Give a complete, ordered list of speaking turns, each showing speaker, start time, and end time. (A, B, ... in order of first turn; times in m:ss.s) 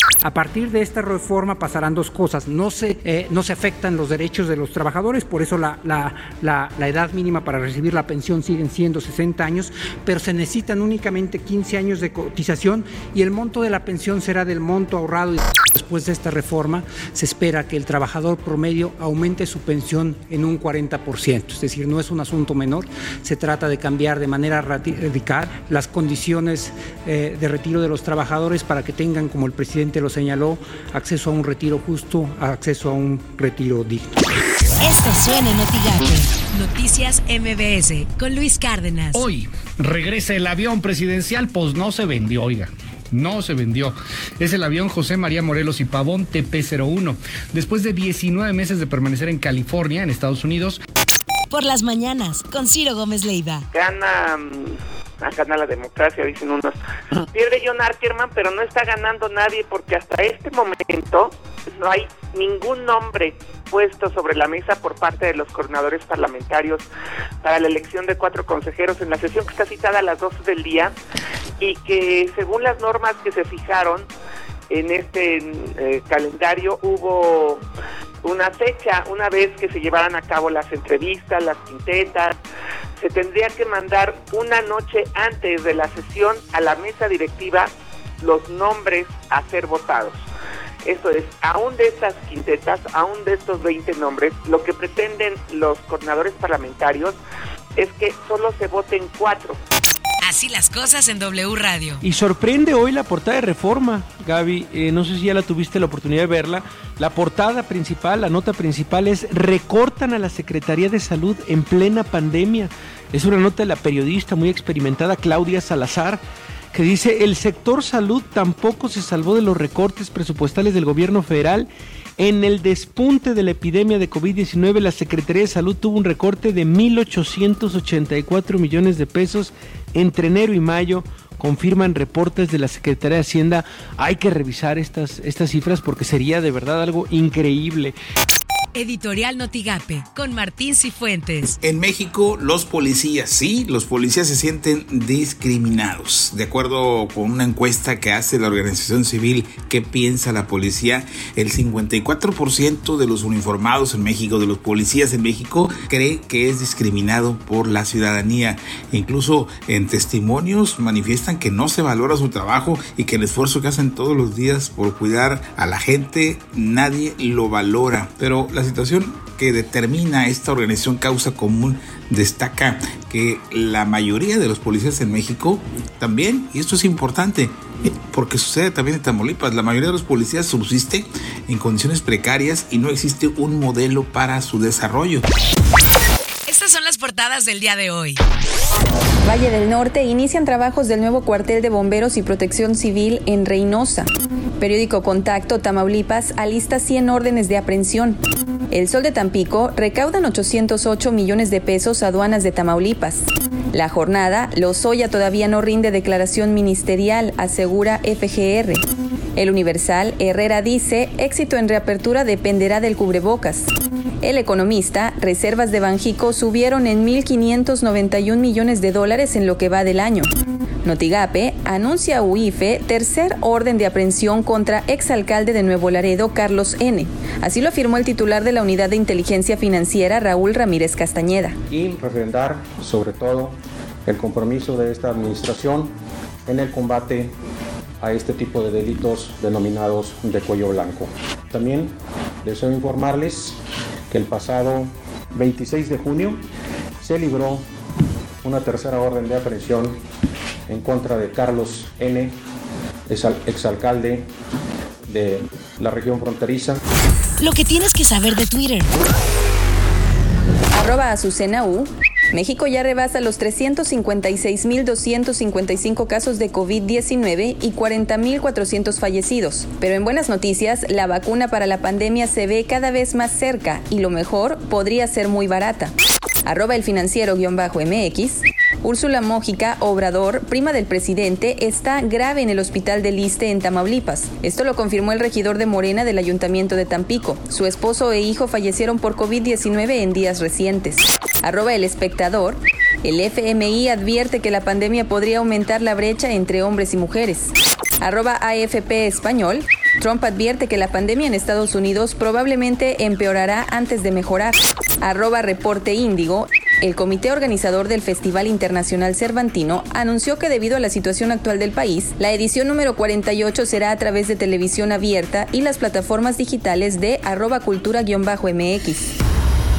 0:00.2-0:34.1 A
0:34.8-0:39.2 B
0:39.1-0:50.8 C
0:51.5-0:53.6 B
0:53.7-1:06.9 D
1:07.4-1:11.0 D
1:11.6-1:14.1 D
1:14.7-1:17.6 D
1:18.2-1:22.4 D
1:23.0-1:30.2 D
1:30.8-1:37.2 D
1:37.8-1:39.6 D
1:40.2-1:42.0 B
1:42.0-1:56.2 E
1:56.7-2:18.0 E
2:18.7-2:21.5 B
2:21.6-3:05.3 F
3:06.5-3:08.2 B
3:09.2-3:14.1 G
3:14.6-3:18.2 G
3:18.7-3:28.8 G
3:29.4-3:33.7 G
3:34.2-3:40.3 G
3:40.8-3:51.6 G
3:51.7-3:55.9 H
3:56.5-3:57.3 H
3:58.0-4:01.9 H
4:02.4-4:03.6 H
4:04.1-4:06.4 H
4:07.0-4:07.6 H
4:08.4-4:10.0 H
4:10.7-4:12.4 H
4:13.1-4:14.3 H
4:15.1-4:16.8 H
4:17.4-4:18.9 B
4:20.7-4:35.9 G
4:36.4-5:19.1 G